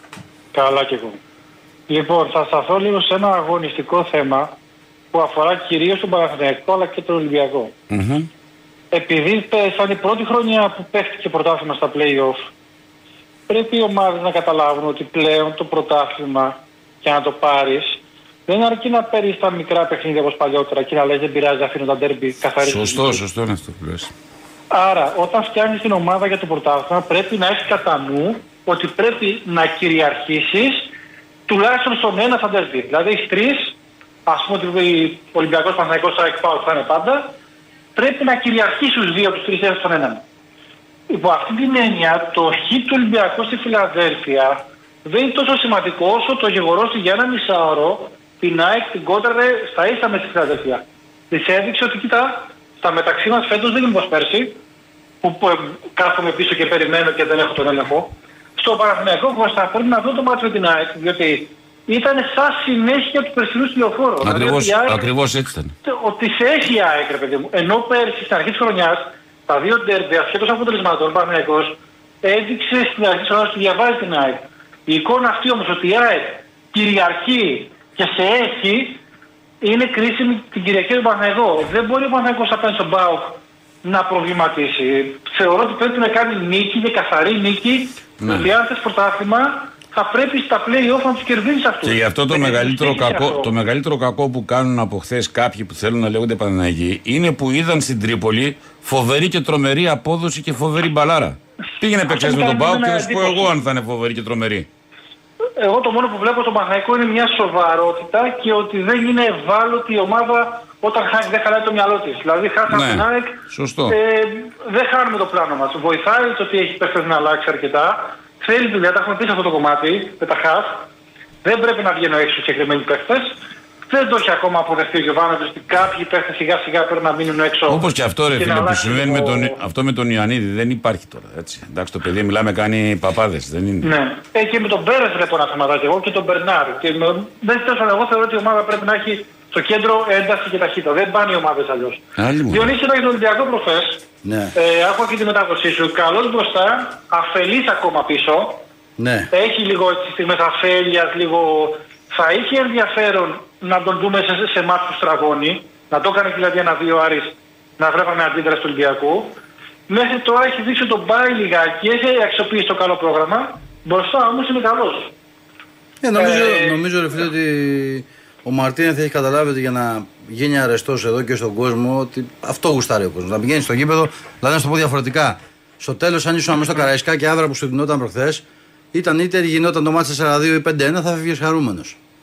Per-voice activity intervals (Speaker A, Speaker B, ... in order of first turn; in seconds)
Speaker A: 0.5-1.2, 1.9-4.5, 5.1-7.7, 8.9-12.5, 13.5-23.2, 24.7-30.9, 31.5-37.3, 38.0-40.2, 41.1-54.6, 55.2-65.1, 65.8-79.0, 79.6-93.5, 102.0-103.5, 105.6-120.8, 121.4-123.3, 123.9-129.6, 133.8-144.0, 144.6-148.6, 149.3-159.4, 159.9-165.1, 166.2-166.8
Speaker B: 7.9-8.3, 22.6-24.1, 64.2-65.7, 88.2-88.5, 91.8-104.7, 112.7-114.0, 127.7-133.9, 142.2-142.8
Speaker C: 144.2-144.5, 149.0-149.3, 166.0-182.0